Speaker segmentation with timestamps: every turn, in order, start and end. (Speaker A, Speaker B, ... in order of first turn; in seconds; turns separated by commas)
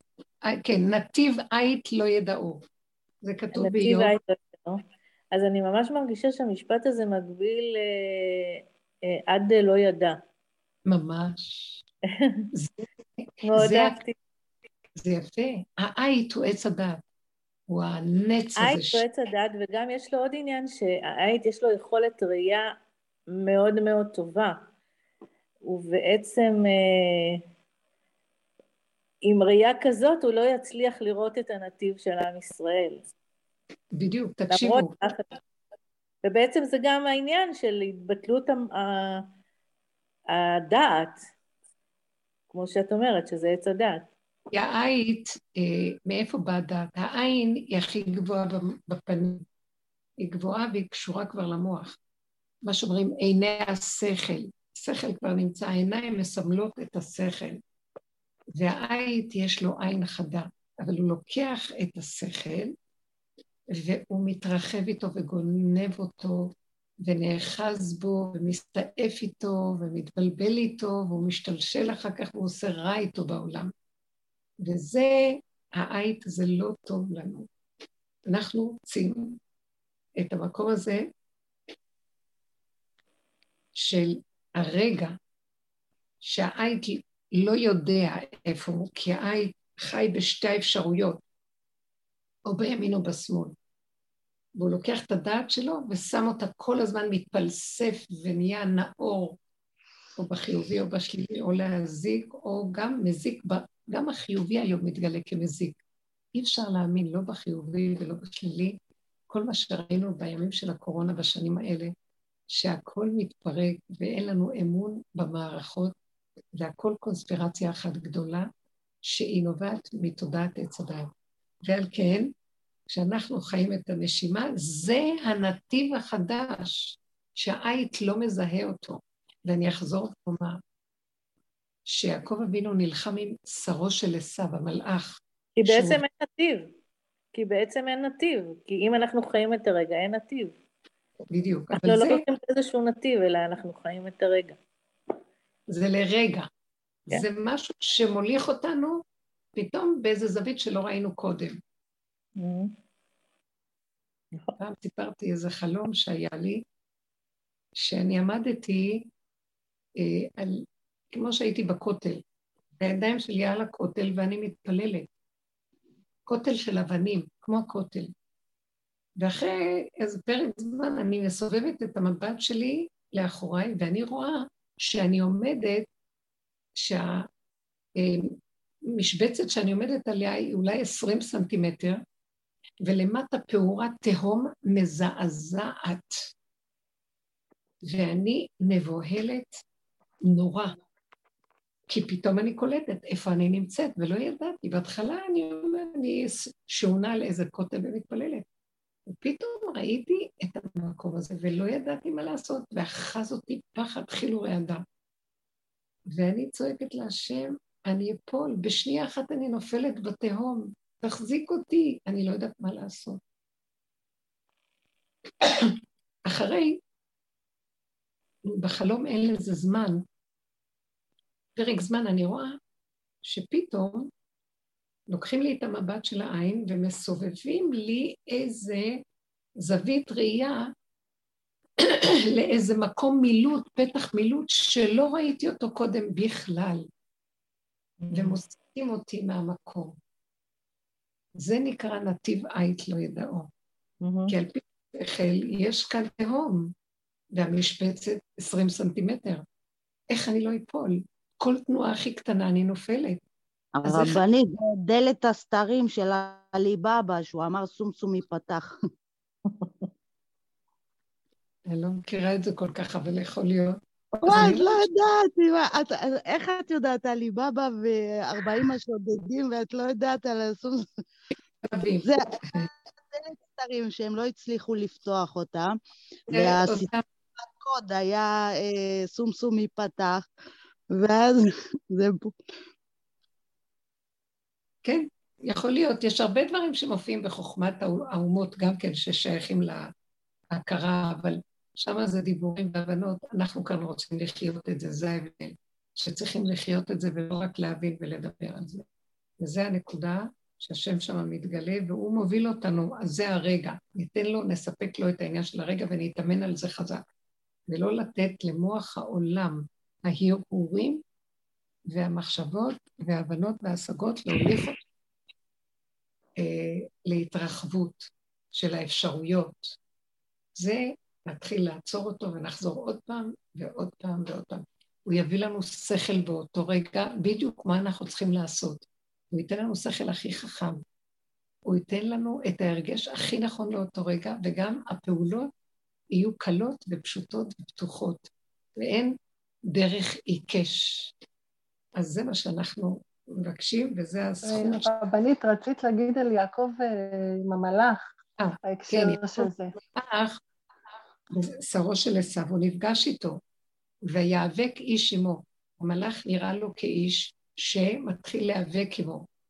Speaker A: 0.4-2.6, Speaker A: 3.2-4.2, Speaker B: 3.5-10.2, Speaker A: 10.9-11.8, Speaker B: 12.2-12.5, Speaker A: 12.5-14.0, Speaker B: 13.4-14.2, Speaker A: 15.0-17.0, Speaker A: 17.7-19.1, Speaker B: 18.6-22.8, Speaker B: 23.3-24.7, Speaker B: 25.6-27.4, Speaker B: 29.2-33.1, Speaker A: 34.0-34.9, Speaker B: 34.5-35.4, Speaker B: 36.2-39.3, Speaker B: 40.3-41.2, Speaker B: 42.5-44.1, Speaker A: 44.5-49.4, Speaker A: 50.2-52.0, Speaker A: 52.6-57.6, Speaker A: 58.6-62.8, Speaker A: 63.7-66.5, Speaker A: 67.0-73.7, Speaker A: 74.6-77.5, Speaker A: 78.3-79.4, Speaker A: 80.2-81.1, Speaker A: 83.8-85.2, Speaker A: 86.2-91.2, Speaker A: 92.5-93.5, Speaker A: 94.6-99.4, Speaker A: 100.2-105.8, Speaker A: 106.3-108.8, Speaker A: 109.3-111.9, Speaker A: 112.5-115.9, Speaker A: 116.6-118.5, Speaker A: 119.0-121.1, Speaker A: 121.7-122.3, Speaker A: 122.9-130.6, Speaker A: 131.9-136.0, Speaker B: 135.6-136.7, Speaker B: 137.3-140.6, Speaker A: 141.3-142.2, Speaker B: 141.8-144.6, Speaker A: 145.7-146.5, Speaker A: 147.1-149.0, Speaker A: 149.6-151.6, Speaker B: 152.4-152.7, Speaker A: 154.6-156.6, Speaker A: 157.8-159.1, Speaker A: 160.0-162.2, Speaker A: 162.8-165.1, Speaker A: 166.3-168.1, Speaker A: 169.2-175.9, Speaker A: 176.8-177.3, Speaker A: 178.0-178.4, Speaker A: 178.9-182.0, Speaker A: 182.8-186.3, Speaker A: 187.8-189.6, Speaker A: 190.3-190.8, Speaker A: 191.9-198.4, Speaker A: 199.1-204.8, Speaker A: 206.1-213.2, Speaker A: 215.4-215.7, Speaker A: 216.3-216.8, Speaker A: 218.5-220.0, Speaker A: 221.6-222.6, Speaker A: 223.2-224.1, Speaker A: 225.1-229.0, Speaker A: 229.6-230.7, Speaker A: 231.8-236.9, Speaker B: 238.0-238.4, Speaker A: 238.1-239.9, Speaker A: 241.4-243.5, Speaker B: 244.0-244.3, Speaker A: 244.3-246.7, Speaker A: 247.3-249.4, Speaker A: 250.1-253.2, Speaker C: 253.8-258.7, Speaker A: 253.8-254.2, Speaker A: 261.7-264.9, Speaker C: 264.2-270.9, Speaker A: 271.6-272.7, Speaker C: 272.0-275.8, Speaker A: 276.3-277.0, Speaker C: 276.3-280.3, Speaker C: 280.9-282.4, Speaker A: 284.9-289.9, Speaker A: 290.5-298.9, Speaker A: 299.4-307.1, Speaker A: 307.7-311.0, Speaker A: 311.9-314.8, Speaker A: 316.4-319.8, Speaker A: 320.6-330.8, Speaker A: 331.7-335.5, Speaker A: 336.1-339.1, Speaker A: 339.7-341.1, Speaker A: 342.0-344.9, Speaker D: 344.4-348.0, Speaker A: 348.4-350.4, Speaker D: 348.6-349.7, Speaker A: 351.3-353.4, Speaker A: 354.1-359.3